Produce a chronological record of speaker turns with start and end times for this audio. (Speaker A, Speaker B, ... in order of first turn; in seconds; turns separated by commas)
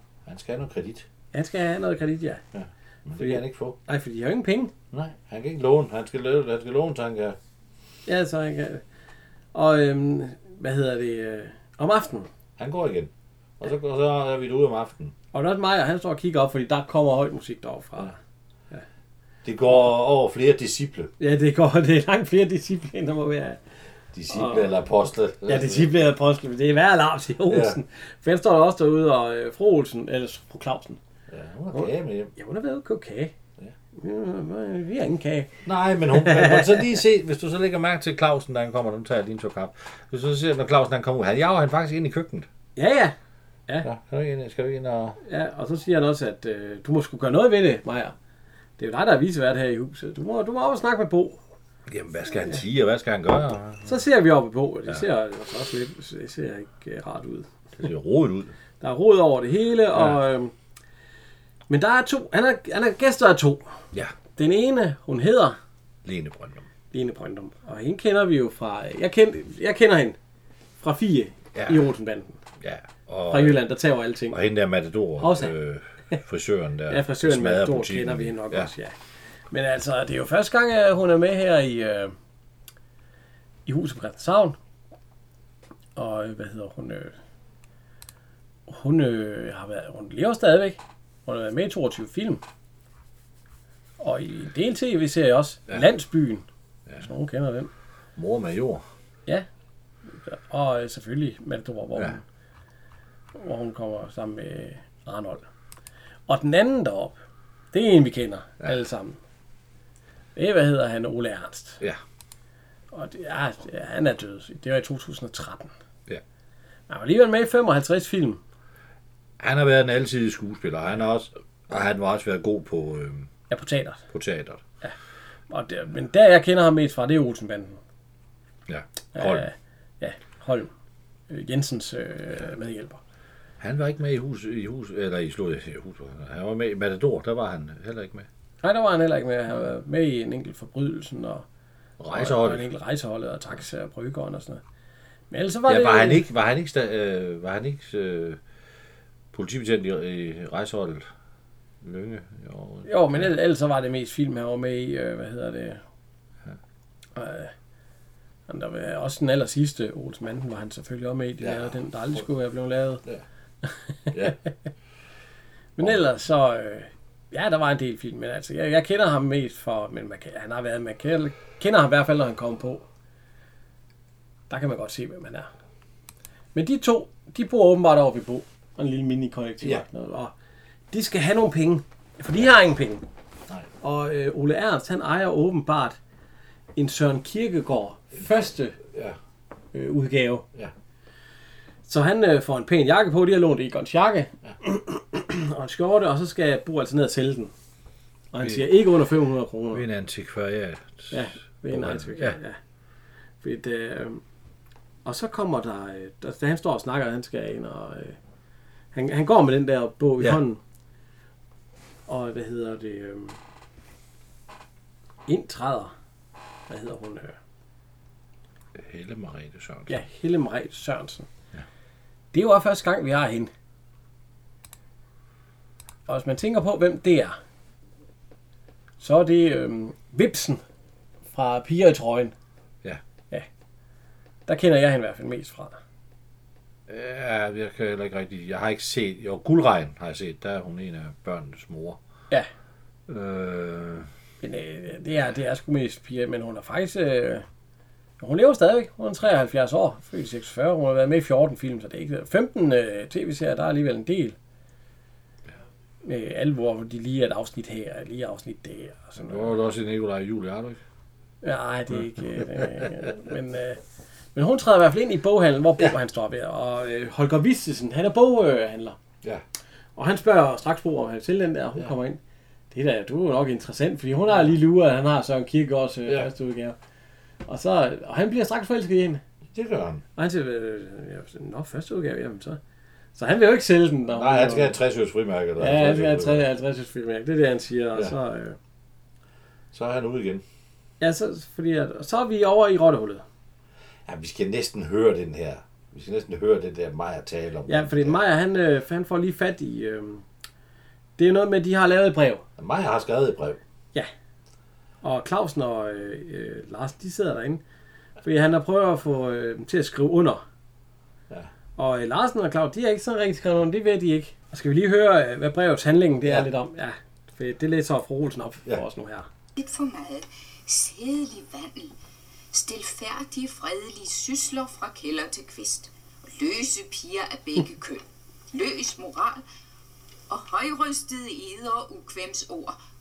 Speaker A: 0.3-1.1, Speaker B: 1.3-2.4, Speaker A: 2.5-3.8, Speaker B: 3.2-4.7, Speaker A: 4.9-7.4, Speaker B: 8.1-8.8, Speaker B: 9.5-12.3, Speaker A: 12.6-15.1, Speaker B: 15.3-18.2, Speaker A: 19.4-21.1, Speaker B: 21.2-23.6, Speaker A: 24.1-26.0, Speaker B: 24.3-24.8, Speaker B: 25.4-31.0, Speaker A: 27.5-27.8, Speaker A: 31.3-32.3, Speaker B: 31.7-33.3, Speaker B: 34.0-35.5, Speaker A: 35.6-42.5, Speaker B: 36.1-37.0, Speaker B: 42.8-43.2, Speaker A: 43.8-45.2, Speaker B: 45.2-48.1, Speaker B: 48.8-51.4, Speaker A: 51.9-54.0, Speaker B: 53.9-57.5, Speaker A: 57.8-58.5, Speaker B: 58.8-60.5, Speaker B: 61.7-63.6, Speaker B: 64.4-65.6, Speaker A: 66.0-66.7, Speaker B: 66.9-70.2, Speaker B: 70.8-72.4, Speaker A: 71.5-71.9, Speaker A: 72.6-73.6, Speaker B: 73.3-74.4, Speaker A: 74.3-78.7, Speaker B: 75.2-75.5, Speaker B: 76.9-79.0, Speaker B: 79.5-82.1, Speaker B: 83.7-84.6, Speaker B: 86.0-87.2, Speaker B: 88.7-92.4, Speaker B: 94.0-96.5, Speaker B: 97.0-97.7, Speaker A: 98.2-98.8, Speaker B: 100.2-102.2, Speaker B: 103.3-105.5, Speaker B: 106.3-107.2, Speaker B: 107.7-109.2, Speaker B: 110.4-111.8, Speaker B: 112.9-115.7, Speaker B: 116.9-118.4, Speaker A: 119.4-123.3, Speaker B: 123.5-124.0, Speaker A: 124.1-124.6, Speaker B: 125.5-127.8, Speaker A: 128.7-129.5, Speaker B: 129.1-130.7, Speaker B: 131.3-133.0, Speaker A: 133.6-138.3, Speaker B: 138.6-141.4, Speaker A: 142.0-142.6, Speaker B: 142.1-144.6, Speaker B: 145.3-146.2, Speaker A: 145.7-148.4, Speaker A: 149.3-151.1, Speaker A: 151.8-153.3, Speaker B: 152.9-155.8, Speaker B: 157.2-157.5, Speaker B: 158.5-163.0, Speaker A: 161.4-162.2, Speaker B: 163.6-164.3, Speaker A: 164.1-164.4, Speaker B: 165.8-172.8, Speaker B: 174.5-175.5, Speaker B: 176.5-180.3, Speaker B: 180.9-183.0, Speaker B: 183.8-186.0, Speaker B: 186.8-188.8, Speaker A: 188.9-189.2, Speaker B: 189.7-190.5, Speaker B: 191.9-197.5, Speaker B: 198.3-199.8, Speaker A: 198.4-198.7, Speaker A: 199.7-202.4, Speaker B: 201.1-202.6, Speaker B: 203.4-204.2, Speaker B: 205.1-208.2, Speaker B: 208.9-210.6, Speaker B: 212.1-213.4, Speaker B: 215.3-215.9, Speaker B: 216.7-217.4, Speaker A: 218.8-220.0, Speaker B: 219.9-221.3, Speaker B: 222.3-223.5, Speaker B: 226.1-227.4, Speaker B: 229.0-230.6, Speaker B: 231.3-232.3, Speaker B: 234.5-235.8, Speaker A: 236.9-242.0, Speaker A: 243.1-244.1, Speaker B: 244.4-247.4, Speaker B: 248.2-254.4, Speaker B: 256.0-259.5, Speaker A: 259.2-260.8, Speaker B: 261.4-263.8, Speaker A: 262.4-262.9, Speaker B: 264.4-269.0, Speaker B: 270.0-272.2, Speaker B: 272.7-276.8, Speaker B: 277.5-279.2, Speaker A: 279.5-280.0, Speaker B: 280.2-282.6, Speaker B: 283.1-284.8, Speaker A: 284.1-286.5, Speaker B: 285.6-288.6, Speaker A: 289.7-290.4, Speaker B: 291.0-293.2, Speaker A: 294.1-298.2, Speaker B: 297.7-300.2, Speaker B: 301.2-302.4, Speaker A: 302.6-303.6, Speaker B: 305.0-307.6, Speaker B: 308.2-310.4, Speaker B: 311.8-319.3, Speaker C: 319.6-321.9, Speaker C: 322.5-329.4, Speaker C: 330.3-332.8